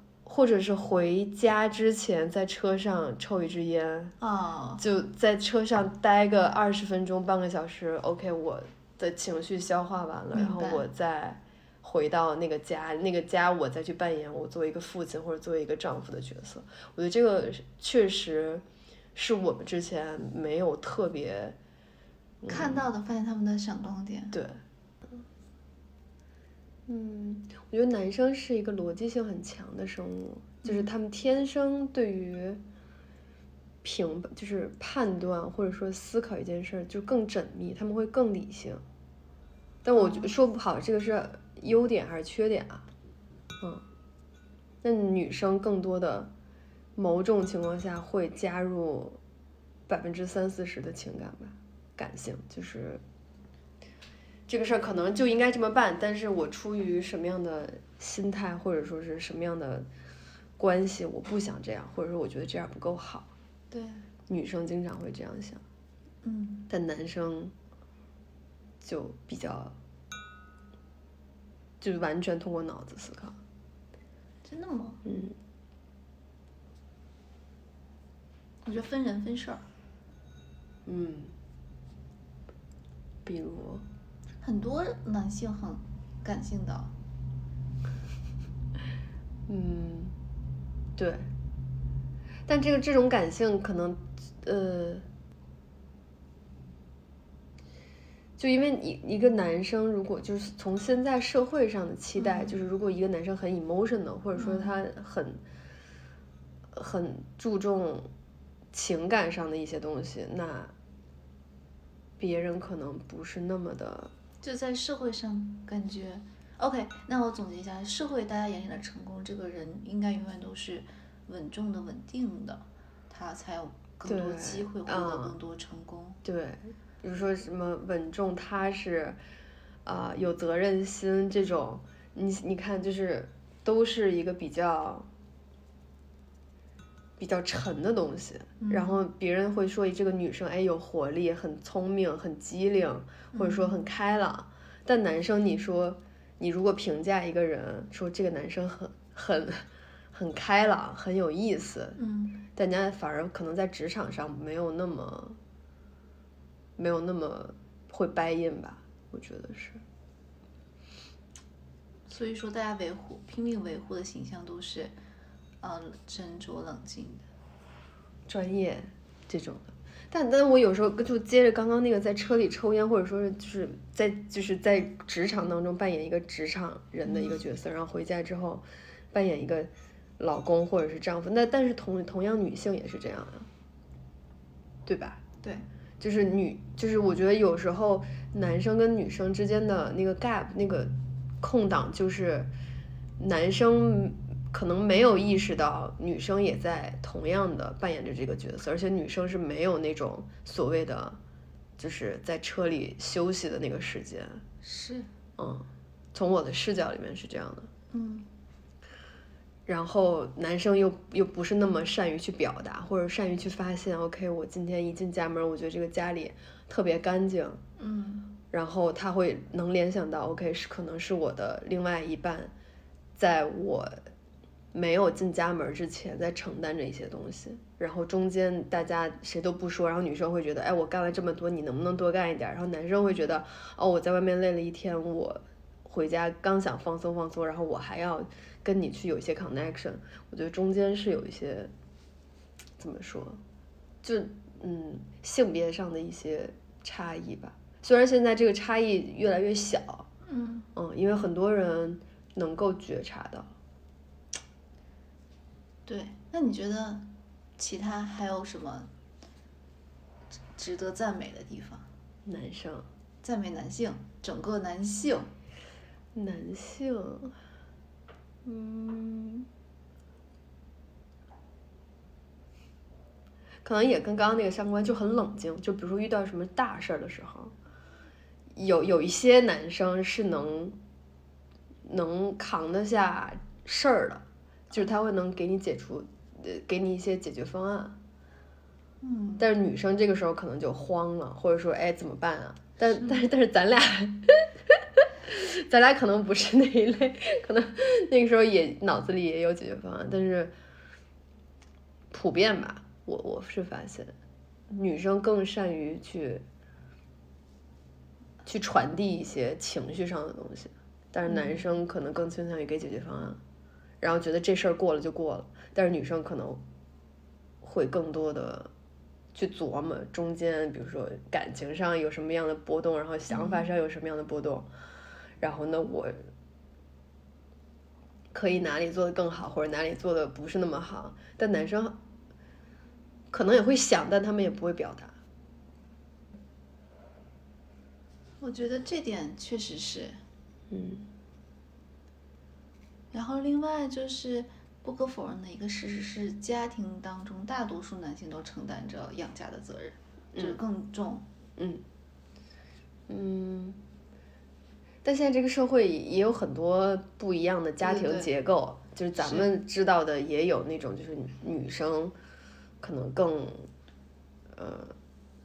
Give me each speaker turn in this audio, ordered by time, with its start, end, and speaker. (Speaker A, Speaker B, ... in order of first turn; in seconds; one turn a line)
Speaker A: 0.2-4.1
Speaker B: 4.2-4.8
Speaker A: 4.8-18.6
Speaker B: 10.3-10.8
Speaker A: 19.1-21.6
Speaker A: 22.4-22.9
Speaker B: 22.4-24.4
Speaker A: 24.3-24.6
Speaker A: 26.9-32.6
Speaker A: 33.8-38.8
Speaker A: 39.8-42.9
Speaker B: 40.0-40.3
Speaker A: 44.8-46.3
Speaker A: 47.0-49.2
Speaker A: 49.9-53.0
Speaker A: 54.5-59.9
Speaker A: 60.6-63.3
Speaker B: 63.7-64.0
Speaker A: 64.3-65.6
Speaker B: 66.2-66.7
Speaker A: 66.7-67.5
Speaker A: 68.8-69.7
Speaker A: 71.8-73.3
Speaker B: 74.4-75.0
Speaker A: 75.0-75.3
Speaker B: 78.6-79.6
Speaker A: 80.8-81.3
Speaker A: 83.2-83.8
Speaker B: 84.4-86.9
Speaker A: 89.5-90.2
Speaker A: 91.0-91.3
Speaker A: 92.5-95.0
Speaker A: 98.4-105.4
Speaker B: 102.2-102.6
Speaker B: 104.3-104.7
Speaker A: 106.7-108.1
Speaker A: 108.7-110.7
Speaker A: 112.2-114.1
Speaker B: 114.4-126.2
Speaker A: 124.1-125.3
Speaker A: 126.2-129.2
Speaker A: 129.8-135.1
Speaker A: 137.2-152.0
Speaker B: 138.6-139.0
Speaker B: 143.3-143.8
Speaker B: 151.9-152.4
Speaker A: 152.6-155.4
Speaker A: 156.8-159.8
Speaker B: 162.1-164.9
Speaker B: 165.6-167.3
Speaker A: 168.3-183.5
Speaker B: 177.1-177.3
Speaker A: 184.8-185.2
Speaker A: 186.0-192.5
Speaker A: 193.2-201.2
Speaker A: 201.8-204.4
Speaker B: 204.6-205.1
Speaker A: 205.4-207.7
Speaker B: 207.9-208.3
Speaker A: 209.7-217.6
Speaker B: 217.8-218.3
Speaker A: 218.5-222.5
Speaker A: 223.2-224.0
Speaker A: 224.7-241.7
Speaker A: 242.8-243.4
Speaker A: 244.0-250.1
Speaker B: 250.2-250.7
Speaker A: 250.7-253.5
Speaker B: 255.8-257.1
Speaker B: 257.6-258.9
Speaker B: 260.6-261.9
Speaker A: 262.2-262.9
Speaker B: 263.2-265.3
Speaker A: 266.1-267.3
Speaker A: 268.4-269.5
Speaker A: 273.6-277.5
Speaker A: 278.6-280.8
Speaker A: 281.9-288.0
Speaker B: 289.0-289.5
Speaker A: 289.4-300.5
Speaker B: 292.9-293.2
Speaker A: 302.1-304.1
Speaker A: 304.7-306.4
Speaker A: 308.4-313.4
Speaker B: 311.2-311.6
Speaker A: 314.0-316.6
Speaker A: 317.6-318.7
Speaker A: 319.3-324.7
Speaker B: 323.3-323.7
Speaker A: 325.4-326.1
Speaker A: 328.3-332.0
Speaker A: 333.3-335.1
Speaker B: 338.4-340.2
Speaker A: 340.7-341.1
Speaker B: 343.1-351.2
Speaker A: 351.6-351.8
Speaker A: 353.1-353.8
Speaker A: 355.0-362.1
Speaker B: 357.8-358.3
Speaker B: 359.2-359.5
Speaker A: 362.8-363.7
Speaker A: 364.5-364.9